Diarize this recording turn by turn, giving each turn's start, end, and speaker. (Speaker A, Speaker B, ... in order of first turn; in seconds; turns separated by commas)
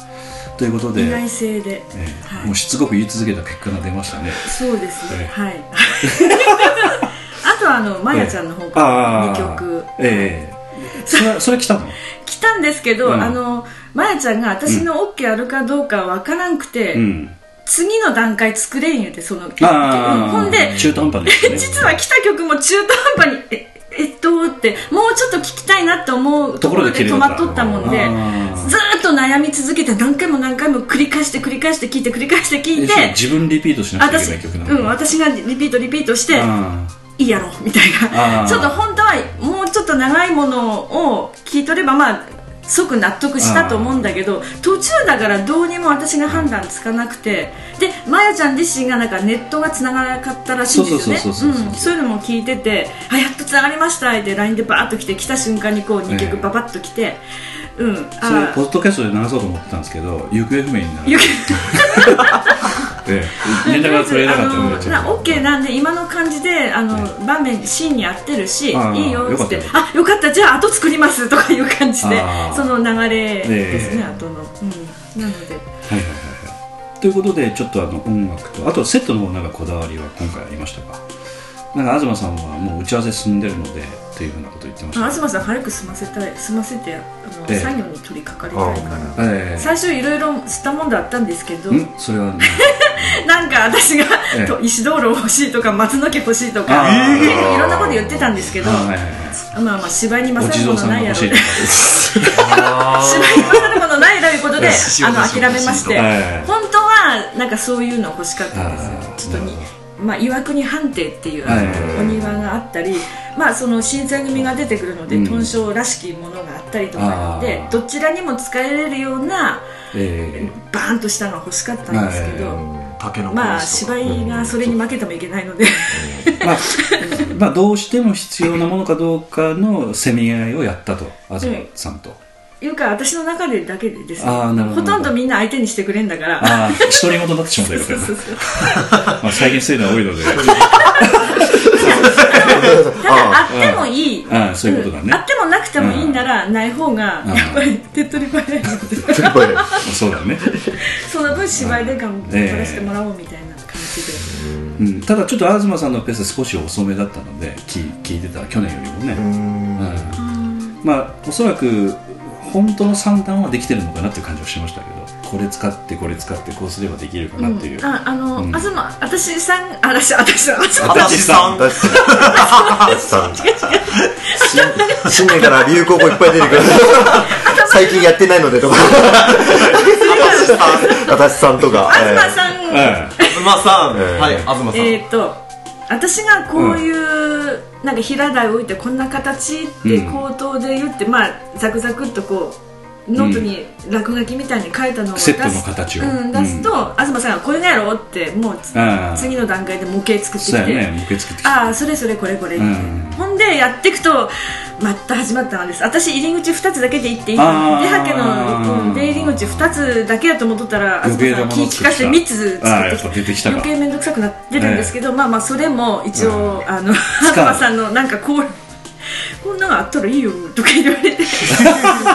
Speaker A: 0.6-1.2, Speaker B: 0.9-2.5, Speaker A: 1.8-5.3, Speaker B: 4.4-10.3, Speaker A: 6.0-7.0, Speaker A: 8.1-12.0, Speaker B: 10.9-11.4, Speaker B: 12.2-17.1, Speaker A: 13.0-13.4, Speaker A: 16.9-17.4, Speaker B: 17.6-33.2, Speaker A: 19.6-21.9, Speaker A: 26.6-28.8, Speaker A: 32.7-35.0, Speaker B: 34.0-36.5, Speaker A: 36.3-37.0, Speaker B: 37.2-57.2, Speaker A: 38.1-38.8, Speaker A: 43.4-44.1, Speaker A: 50.6-51.9, Speaker A: 56.1-56.5, Speaker B: 57.8-58.6, Speaker A: 58.2-62.4, Speaker B: 61.0-62.7, Speaker A: 63.0-65.4, Speaker B: 63.6-75.7, Speaker A: 68.7-69.9, Speaker A: 72.0-72.8, Speaker A: 73.4-74.1, Speaker A: 75.9-81.0, Speaker A: 81.7-85.2, Speaker B: 84.9-91.9, Speaker A: 87.5-87.8, Speaker C: 88.5-89.2, Speaker A: 89.2-89.8, Speaker A: 91.7-93.1, Speaker B: 92.4-98.9, Speaker A: 94.3-94.6, Speaker A: 96.7-97.5, Speaker D: 96.8-97.5, Speaker C: 97.2-98.3, Speaker A: 98.6-99.4, Speaker B: 99.5-119.7, Speaker A: 100.3-102.7, Speaker D: 102.3-103.8, Speaker D: 104.6-106.0, Speaker A: 104.6-104.9, Speaker A: 105.8-106.5, Speaker A: 108.5-109.7, Speaker A: 111.4-112.2, Speaker C: 111.5-112.2, Speaker A: 115.1-115.5, Speaker A: 117.0-117.8, Speaker A: 119.9-120.6, Speaker B: 120.3-122.7, Speaker A: 121.9-122.6, Speaker D: 123.0-124.1, Speaker B: 123.3-127.3, Speaker A: 124.0-125.0, Speaker A: 126.4-132.2, Speaker B: 131.4-131.7, Speaker B: 132.6-137.2, Speaker A: 134.2-135.2, Speaker A: 136.4-142.7, Speaker B: 137.8-138.5, Speaker B: 140.4-141.3, Speaker D: 142.1-142.6, Speaker C: 142.2-143.4, Speaker B: 143.0-149.8, Speaker A: 143.5-145.2, Speaker A: 145.8-146.3, Speaker A: 147.2-147.7, Speaker C: 149.1-149.8, Speaker A: 149.8-150.5, Speaker B: 150.9-154.3, Speaker A: 151.5-152.9, Speaker C: 154.3-154.8, Speaker A: 154.8-168.7, Speaker C: 159.1-160.2, Speaker B: 160.2-160.8, Speaker B: 167.4-175.7, Speaker D: 170.8-172.9, Speaker A: 170.8-171.7, Speaker C: 171.5-173.5, Speaker C: 174.4-182.4, Speaker D: 176.2-176.7, Speaker B: 177.4-177.8, Speaker D: 179.2-181.7, Speaker B: 179.8-181.1, Speaker B: 181.8-183.7, Speaker A: 182.7-183.2, Speaker D: 183.2-185.0, Speaker C: 183.9-184.5, Speaker B: 184.7-218.6, Speaker A: 186.5-186.8, Speaker A: 189.8-190.2, Speaker A: 193.2-193.5, Speaker A: 195.1-196.7, Speaker A: 198.7-199.4, Speaker A: 200.4-201.8, Speaker A: 202.6-203.2, Speaker A: 207.3-210.0, Speaker A: 211.0-213.7, Speaker A: 214.5-214.9, Speaker A: 216.1-216.6, Speaker A: 217.2-217.7, Speaker B: 219.4-222.0